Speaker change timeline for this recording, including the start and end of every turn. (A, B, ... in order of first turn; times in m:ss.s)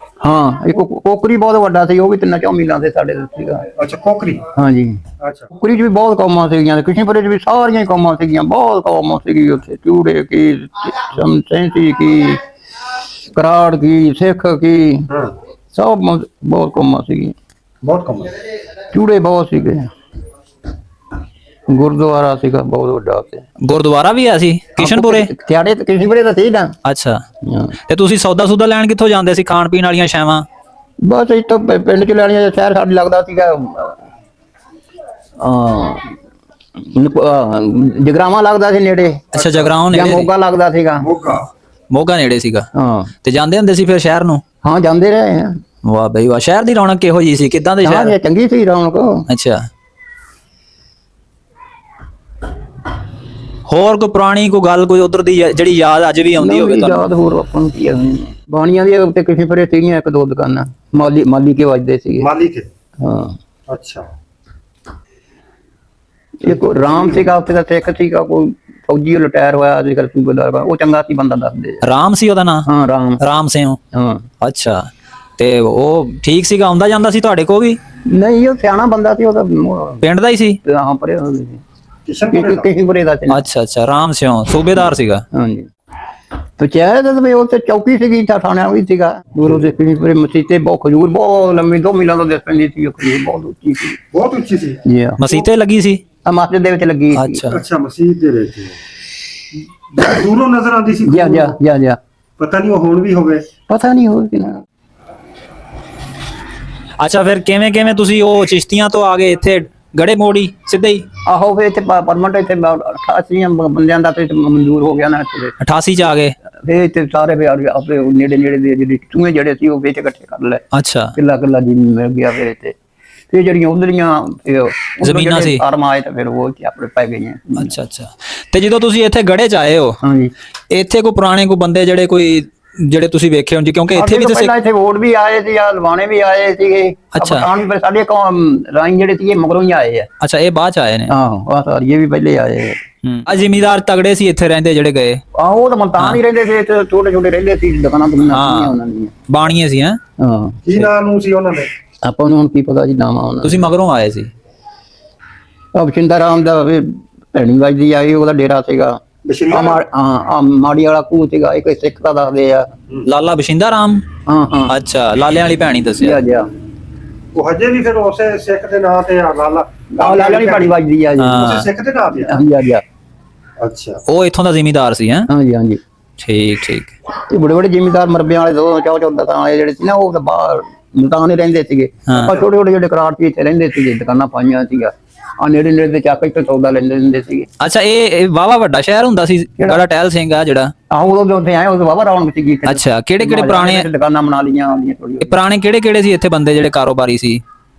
0:00.2-0:03.7 A
0:03.8-0:04.4 B
0:04.5-0:05.0 A
0:05.2-0:05.5 B
0:05.5-0:12.4 A
0:13.3-0:15.1 A
0:15.1-0:15.3 B
0:15.7-0:17.3 A
0:17.8-0:18.3 B
0:18.9-0:19.9 A
0:21.7-0:23.4 A
0:23.6-0:25.3 C
0:24.8-0:26.7 A
0:26.8-0:27.2 C
0:27.5-0:27.7 A
0:27.9-0:30.4 C
0:31.0-0:34.0 A
0:35.4-0:36.1 A
0:36.8-0:41.1 A
0:39.3-0:40.3 C
0:41.0-0:41.5 B
0:41.9-0:42.6 C
0:42.8-0:43.1 A
0:43.2-0:44.4 C
0:44.6-0:45.6 A
0:45.8-0:48.1 C
0:47.8-0:49.3 A
0:49.3-0:49.6 C
0:53.7-0:57.1 C
0:56.4-1:02.3 A
1:02.2-1:02.7 B
1:03.0-1:03.4 A
1:03.7-1:04.1 B
1:06.4-1:11.8 A
1:06.5-1:07.2 B
1:11.8-1:12.7 C
1:12.6-1:13.2 A
1:13.2-1:13.8 C
1:13.9-1:14.3 A
1:14.4-1:14.8 C
1:15.4-1:17.8 C
1:18.1-1:20.0 A
1:20.0-1:20.6 C
1:20.6-1:21.6 A
1:22.0-1:22.7 B
1:22.3-1:23.4 A
1:23.3-1:25.2 C
1:25.3-1:25.7 A
1:26.6-1:34.0 A
1:34.1-1:34.8 B
1:34.8-1:35.2 A
1:35.2-1:36.0 C
1:36.2-1:37.5 A
1:37.1-1:37.6 C
1:37.5-1:38.8 B
1:39.9-1:41.6 B
1:41.0-1:42.0 A
1:42.4-1:43.4 B
1:43.7-1:44.6 A
1:47.0-1:51.0 C
1:51.3-1:55.5 A
1:55.6-1:56.3 C
1:56.6-2:00.6 A
2:00.7-2:01.1 C
2:01.1-2:02.8 A
2:03.3-2:07.7 A
2:05.0-2:05.6 C
2:07.6-2:10.0 C
2:10.0-2:10.3 A
2:10.7-2:14.5 C
2:13.9-2:20.1 A
2:17.1-2:17.5 C
2:20.2-2:21.1 C
2:21.1-2:22.8 A
2:23.0-2:25.2 C
2:25.4-2:29.1 A
2:28.3-2:28.7 C
2:29.3-2:30.0 C
2:30.2-2:30.6 A
2:30.6-2:31.7 B
2:32.0-2:33.7 A
2:33.4-2:34.3 C
2:35.8-2:39.0 A
2:39.2-2:39.8 B
2:39.5-2:42.7 A
2:43.0-2:44.0 C
2:44.3-2:44.7 A
2:44.7-2:46.2 C
2:46.0-2:46.5 A
2:47.3-2:50.8 B
2:49.9-2:51.6 A
2:51.2-2:51.7 C
2:51.4-2:52.4 B
2:52.2-2:52.8 A
2:53.6-2:54.0 B
2:54.1-2:55.3 C
2:55.3-2:55.8 A
2:56.2-2:56.9 C
2:57.2-3:07.5 A
3:02.1-3:02.4 C
3:07.6-3:10.7 C
3:10.9-3:15.4 A
3:12.6-3:13.9 C
3:15.2-3:17.4 C